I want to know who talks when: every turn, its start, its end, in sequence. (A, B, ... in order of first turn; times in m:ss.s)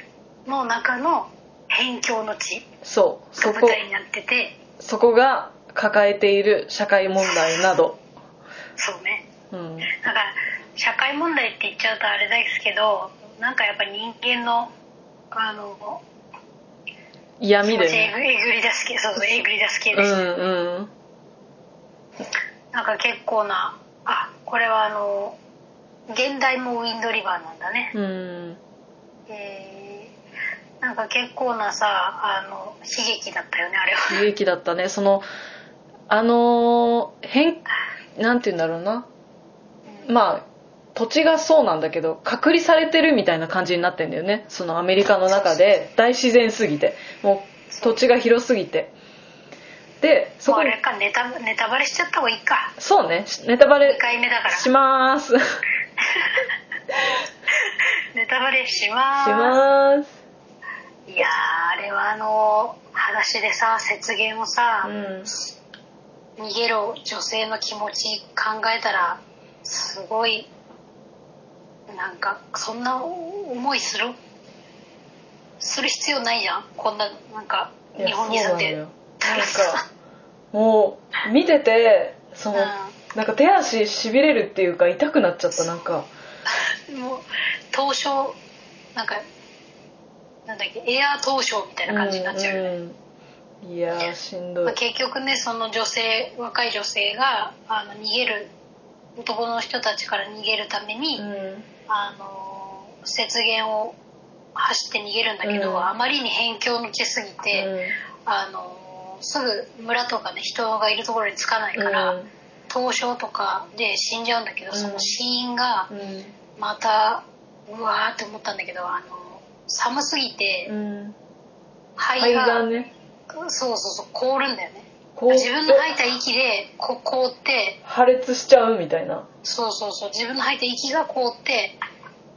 0:00.4-0:02.7 A
0:02.8-0:03.8 B
0:03.4-0:04.6 A
0:04.8-0:08.0 B
0:07.2-0:07.7 A
0:08.8-0:09.2 A
0:09.5-0:09.9 B
0:10.0-0:14.7 A
0:15.3-0:16.0 A
0:17.4-0:18.1 B
0:17.6-0:20.2 A
0:19.9-0:20.9 B
0:22.7-0:25.4 A
0:26.1-0:27.9 A
0:27.9-0:28.6 B
0:29.3-0:30.1 A
0:30.8-0:34.2 A
0:34.1-0:35.2 B
0:36.1-0:37.6 B
0:38.2-0:39.1 B
0:40.1-0:40.4 B
0:41.0-0:48.9 B
0:45.3-0:45.8 A
0:47.7-0:48.0 A
0:50.0-0:50.7 B
0:50.4-0:52.7 A
0:52.8-0:55.4 B
0:53.8-0:54.7 A
0:56.0-0:56.5 A
0:57.6-0:59.6 A
0:59.2-1:00.1 B
1:01.1-1:04.9 A
1:04.8-1:05.3 B
1:06.4-1:10.5 A
1:11.9-1:14.2 A
1:15.6-1:19.8 A
1:18.0-1:19.8 B
1:20.5-1:26.1 B
1:22.5-1:23.0 A
1:26.9-1:28.4 A
1:28.9-1:29.2 A
1:30.4-1:32.7 A
1:31.9-1:33.0 B
1:33.6-1:34.8 B
1:34.6-1:38.5 A
1:39.2-1:41.2 A
1:41.2-1:41.7 B
1:41.9-1:44.0 A
1:44.6-1:47.7 A
1:45.4-1:45.9 B
1:47.5-1:47.9 B
1:48.2-1:52.2 A
1:51.8-1:52.3 B
1:52.7-1:55.9 A
1:54.7-1:55.1 B
1:55.9-1:56.3 B
1:56.6-2:00.7 A
2:00.7-2:01.2 B
2:02.0-2:02.7 A
2:02.2-2:02.9 B
2:03.3-2:07.8 A
2:05.2-2:05.9 B
2:07.8-2:09.2 B
2:09.4-2:11.8 A